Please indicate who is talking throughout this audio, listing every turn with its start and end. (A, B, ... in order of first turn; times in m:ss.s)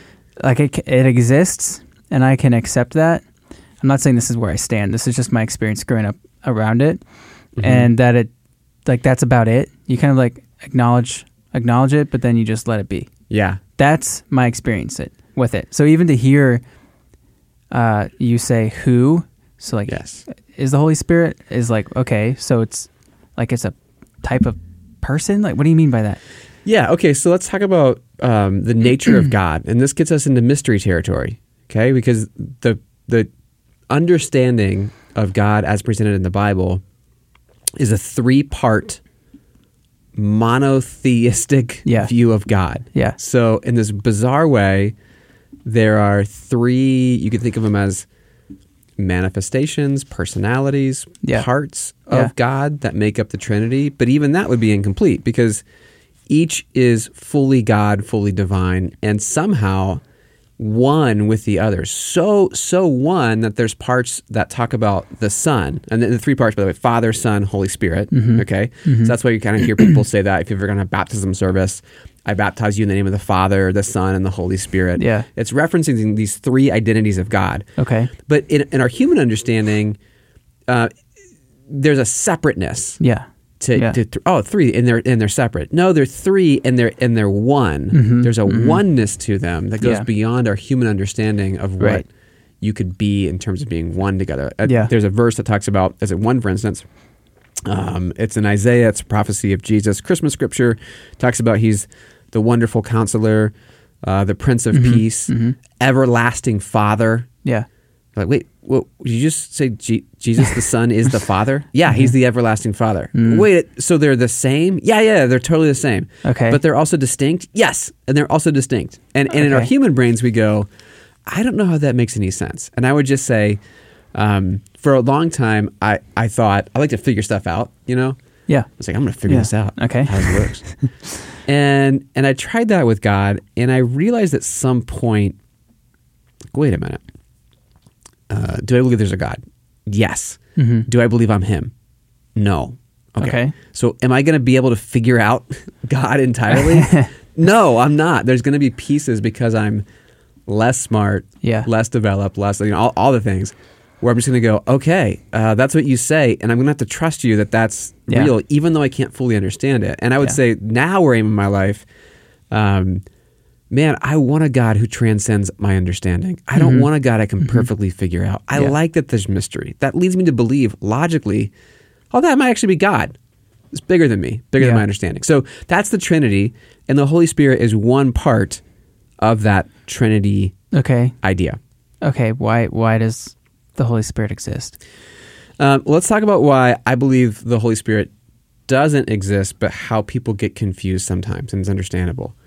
0:00.4-0:03.2 A
0:03.8-0:07.0 A
0:07.6-0:07.9 B
0:07.6-0:08.3 A
0:08.8-0:13.1 A
0:13.3-0:13.6 B
0:13.8-0:16.6 A
0:17.7-0:26.2 A
0:19.9-0:20.2 B
0:26.6-0:33.3 B
0:33.9-0:36.8 B
0:37.8-0:39.0 B
0:40.1-0:44.9 B
0:41.8-0:42.1 A
0:45.6-0:48.0 B
0:49.0-0:55.6 B
0:51.2-0:51.5 A
0:56.3-1:00.0 B
1:00.6-1:20.0 B
1:08.1-1:09.1 A
1:15.0-1:15.3 A
1:17.8-1:18.1 A
1:21.7-1:23.0 B
1:23.0-1:24.0 A
1:23.6-1:32.1 B
1:27.9-1:28.8 A
1:29.8-1:30.0 A
1:32.6-1:36.8 B
1:34.6-1:34.9 A
1:37.6-1:47.3 B
1:44.7-1:45.6 A
1:48.1-2:00.7 B
1:53.1-1:53.4 A
1:56.2-1:56.6 A
1:59.3-1:59.7 A
2:01.2-2:03.6 B
2:04.1-2:08.2 B
2:08.8-2:10.6 B
2:09.3-2:10.9 A
2:11.4-2:15.4 B
2:16.5-2:17.0 B
2:18.3-2:21.7 B
2:20.6-2:20.9 A
2:22.3-2:29.8 B
2:23.2-2:23.5 A
2:26.5-2:27.1 A
2:30.5-2:41.8 B
2:31.4-2:31.7 A
2:42.5-2:43.0 B
2:43.7-2:51.5 B
2:46.5-2:46.9 A
2:47.4-2:47.7 A
2:52.1-2:53.1 B
2:53.7-2:58.6 B
2:59.2-3:00.5 B
3:00.7-3:01.1 A
3:01.2-3:01.6 B
3:02.0-3:04.8 A
3:05.6-3:08.1 B
3:08.7-3:12.3 B